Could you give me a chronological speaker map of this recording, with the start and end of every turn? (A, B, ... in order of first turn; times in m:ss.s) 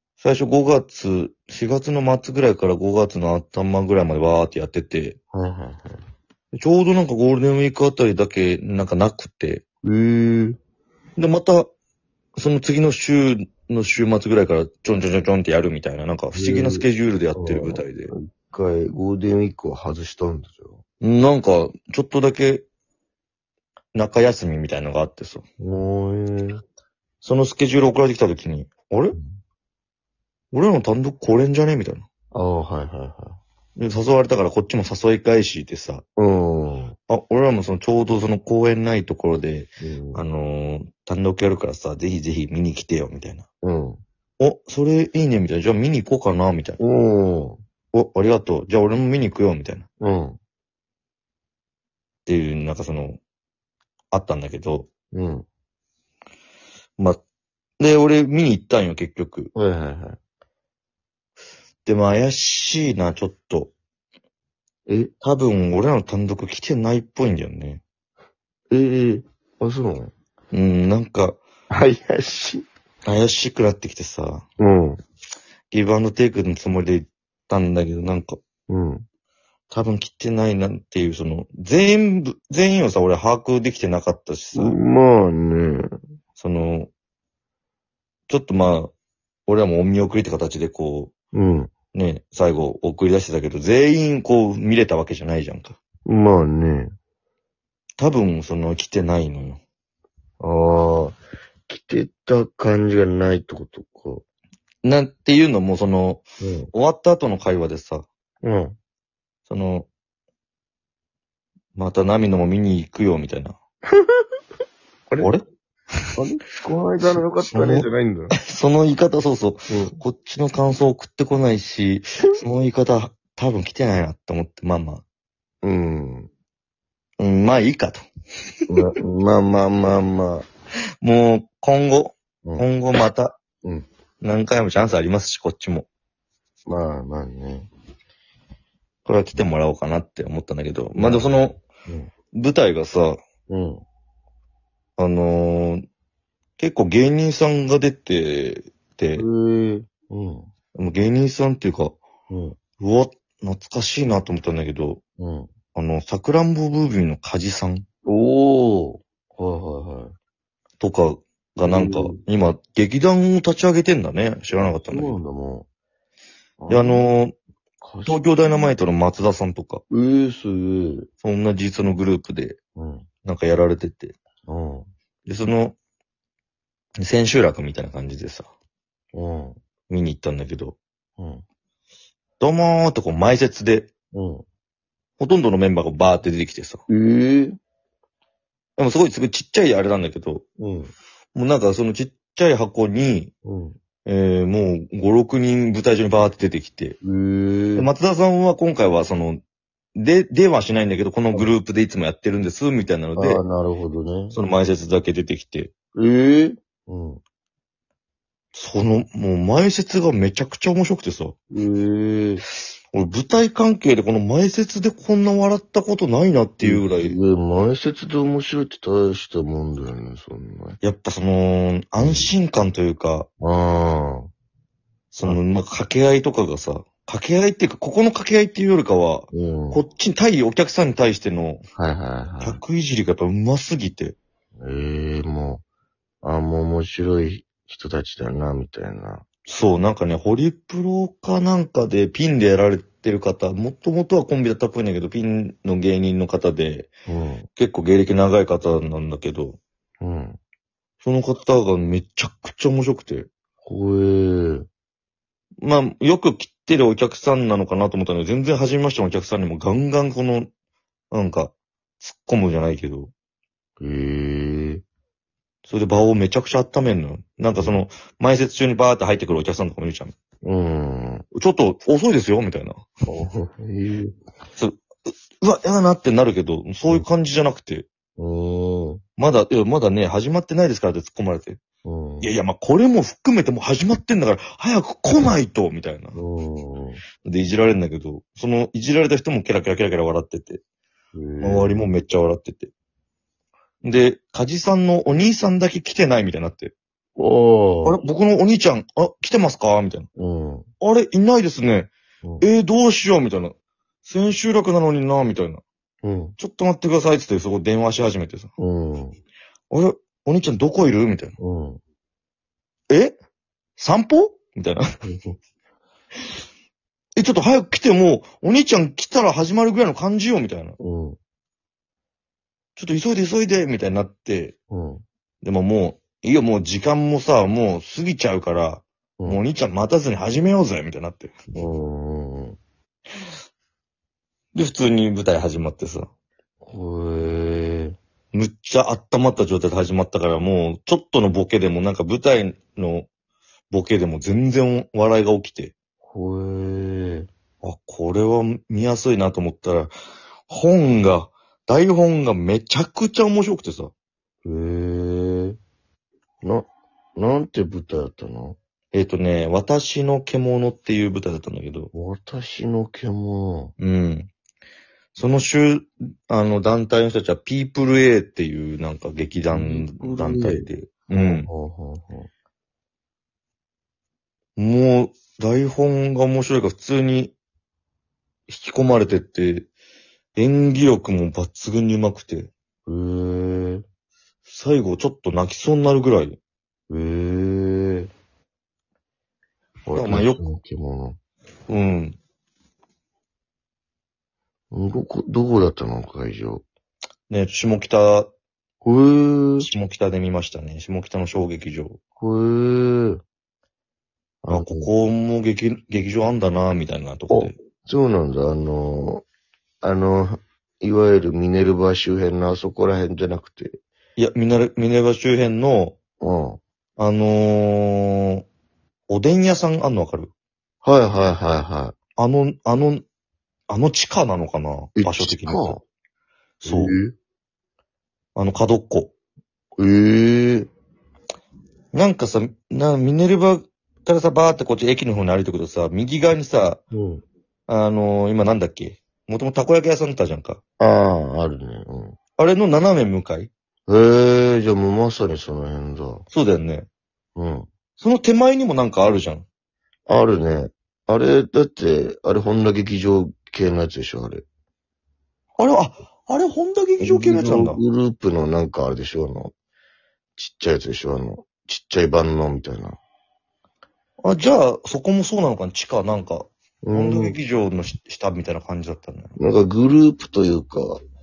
0:00.2-0:05.2 A
0:05.3-0:06.0 B
0:06.5-0:09.6 A
0:09.8-0:10.6 B
0:11.2-0:11.7 A
0:12.4-0:18.1 A
0:16.3-0:20.8 B
0:21.0-0:22.6 A
0:23.9-0:25.4 A
0:25.6-0:26.6 B
0:27.2-0:29.2 A
0:29.1-0:29.4 B
0:30.5-0:32.0 A
0:32.3-0:33.4 B
0:33.8-0:36.0 A
0:36.2-0:37.0 B
0:37.1-0:43.4 A
0:39.8-0:40.2 B
0:43.6-0:44.0 B
0:44.4-0:46.8 A
0:46.8-0:47.6 B
0:47.9-0:49.8 A
0:50.0-0:50.4 B
0:52.2-0:53.2 A
0:54.1-0:54.9 A
0:55.1-0:55.4 B
0:57.8-0:59.5 A
0:59.5-1:00.2 B
1:01.8-1:03.7 A
1:04.9-1:05.1 B
1:05.2-1:07.8 A
1:08.7-1:10.1 B
1:10.5-1:11.4 A
1:11.7-1:12.6 B
1:13.0-1:14.4 A
1:14.6-1:15.0 B
1:15.7-1:18.4 A
1:18.7-1:19.0 B
1:19.7-1:24.7 A
1:24.5-1:25.9 B
1:26.4-1:26.9 A
1:28.3-1:28.9 A
1:29.5-1:31.1 A
1:31.3-1:31.7 B
1:31.9-1:35.8 A
1:36.0-1:36.9 B
1:38.0-1:39.6 A
1:40.4-1:44.2 B
1:44.8-1:48.0 A
1:46.4-1:46.7 B
1:48.4-1:48.8 B
1:49.5-1:49.9 A
1:51.7-1:53.6 A
1:56.1-1:58.3 B
1:57.5-1:57.8 A
1:58.4-2:05.0 A
1:59.7-1:59.9 B
2:05.6-2:06.3 B
2:07.2-2:08.0 A
2:08.7-2:10.4 B
2:11.0-2:13.4 A
2:14.2-2:15.9 A
2:16.7-2:17.7 B
2:19.0-2:21.6 A
2:21.0-2:22.1 B
2:22.3-2:23.2 A
2:23.5-2:23.8 B
2:25.0-2:25.8 A
2:26.6-2:29.3 A
2:29.2-2:30.5 B
2:30.7-2:32.0 A
2:32.3-2:32.6 B
2:32.8-2:35.0 A
2:35.2-2:35.5 B
2:35.7-2:37.8 A
2:38.0-2:40.1 B
2:40.8-2:45.2 A
2:41.6-2:42.2 B
2:44.6-2:45.6 B
2:46.6-2:47.0 B
2:46.7-2:47.3 A
2:47.8-2:48.2 B
2:48.0-2:49.8 A
2:49.9-2:51.1 B
2:51.2-2:52.6 A
2:52.8-2:53.1 B
2:53.2-2:54.2 A
2:54.4-2:54.9 B
2:55.2-2:55.7 A
2:57.0-2:58.5 A
2:59.1-2:59.6 B
2:59.9-3:00.8 A
3:01.2-3:01.4 B
3:02.4-3:03.9 A
3:04.1-3:04.4 B
3:05.2-3:06.8 A
3:06.9-3:07.6 B
3:08.8-3:10.4 A
3:10.6-3:10.9 B
3:11.3-3:13.3 A
3:13.4-3:13.8 B
3:14.0-3:17.0 A
3:17.0-3:17.9 B
3:17.8-3:19.4 A
3:19.9-3:23.4 A
3:23.2-3:24.4 B
3:24.3-3:25.7 A
3:25.9-3:27.2 B
3:28.5-3:31.3 A
3:31.5-3:32.4 B
3:32.5-3:37.2 A
3:36.6-3:40.8 B
3:40.8-3:43.3 A
3:42.0-3:42.3 B
3:43.4-3:44.3 B
3:45.1-3:51.6 A
3:49.3-3:49.8 B
3:51.8-3:52.6 B
3:52.4-3:54.2 A
3:54.6-3:55.6 B
3:56.2-3:59.2 B
3:59.5-4:06.9 A
4:07.1-4:07.5 B
4:07.6-4:09.6 A
4:10.0-4:10.4 B
4:11.0-4:13.3 A
4:13.6-4:14.7 B
4:15.6-4:20.5 A
4:21.1-4:23.1 A
4:23.8-4:24.8 B
4:25.6-4:30.1 A
4:27.5-4:27.8 B
4:30.4-4:31.2 B
4:31.3-4:32.8 A
4:33.1-4:34.1 B
4:35.4-4:37.8 A
4:38.2-4:39.0 B
4:39.2-4:41.6 A
4:41.8-4:42.3 B
4:42.2-4:46.2 A
4:46.1-4:47.0 B
4:47.2-4:50.6 A
4:51.1-4:51.9 B
4:51.4-4:52.7 A
4:53.8-4:56.7 A
4:57.2-4:58.0 B
4:57.8-5:00.1 A
5:00.2-5:00.6 B
5:00.8-5:01.9 A
5:02.4-5:05.6 A
5:06.0-5:06.4 B
5:06.4-5:08.5 A
5:08.6-5:09.2 B
5:09.7-5:11.4 A
5:11.4-5:11.8 B
5:12.9-5:13.1 A
5:13.8-5:14.8 A
5:15.0-5:15.4 B
5:17.2-5:20.8 A
5:20.8-5:21.2 B
5:22.8-5:24.5 A
5:24.7-5:25.0 B
5:25.4-5:31.4 A
5:31.5-5:32.6 B
5:34.5-5:36.1 A
5:36.6-5:38.0 B
5:38.3-5:43.1 A
5:43.7-5:45.7 A
5:46.0-5:47.3 B
5:47.6-5:49.9 A
5:50.5-5:53.9 A
5:54.4-5:55.6 B
5:56.4-5:58.6 B
5:58.9-6:01.9 A
6:01.9-6:03.7 B
6:03.8-6:04.3 A
6:05.1-6:11.5 A
6:09.5-6:12.3 B
6:14.6-6:17.3 A
6:18.5-6:19.7 A
6:20.4-6:22.5 A
6:22.8-6:23.8 B
6:24.5-6:26.4 A
6:26.9-6:28.1 B
6:29.8-6:31.2 B
6:29.9-6:30.4 A
6:31.7-6:32.2 A
6:34.7-6:36.6 B
6:37.3-6:38.3 A
6:38.8-6:39.7 B
6:39.6-6:42.0 A
6:42.2-6:43.2 B
6:44.4-6:44.9 B
6:44.5-6:47.5 A
6:47.3-6:49.2 B
6:49.8-6:53.8 B
6:54.2-6:56.0 A
6:56.2-6:56.6 B
6:57.0-6:58.4 A
6:59.1-7:00.3 A
7:00.8-7:01.9 B
7:02.2-7:03.0 A
7:03.7-7:05.8 A
7:05.0-7:05.8 B
7:06.6-7:07.0 A
7:06.6-7:07.1 B
7:08.4-7:09.1 A
7:09.8-7:10.7 B
7:11.9-7:16.8 A
7:16.9-7:17.2 B
7:17.7-7:20.6 A
7:20.8-7:22.2 B
7:22.4-7:23.5 A
7:23.9-7:26.3 B
7:26.3-7:26.9 A
7:27.4-7:27.7 B
7:28.0-7:29.4 A
7:30.1-7:34.4 B
7:35.6-7:37.8 A
7:37.0-7:39.5 B
7:40.4-7:43.0 B
7:44.2-7:49.3 A
7:46.8-7:47.4 B
7:49.4-7:51.0 B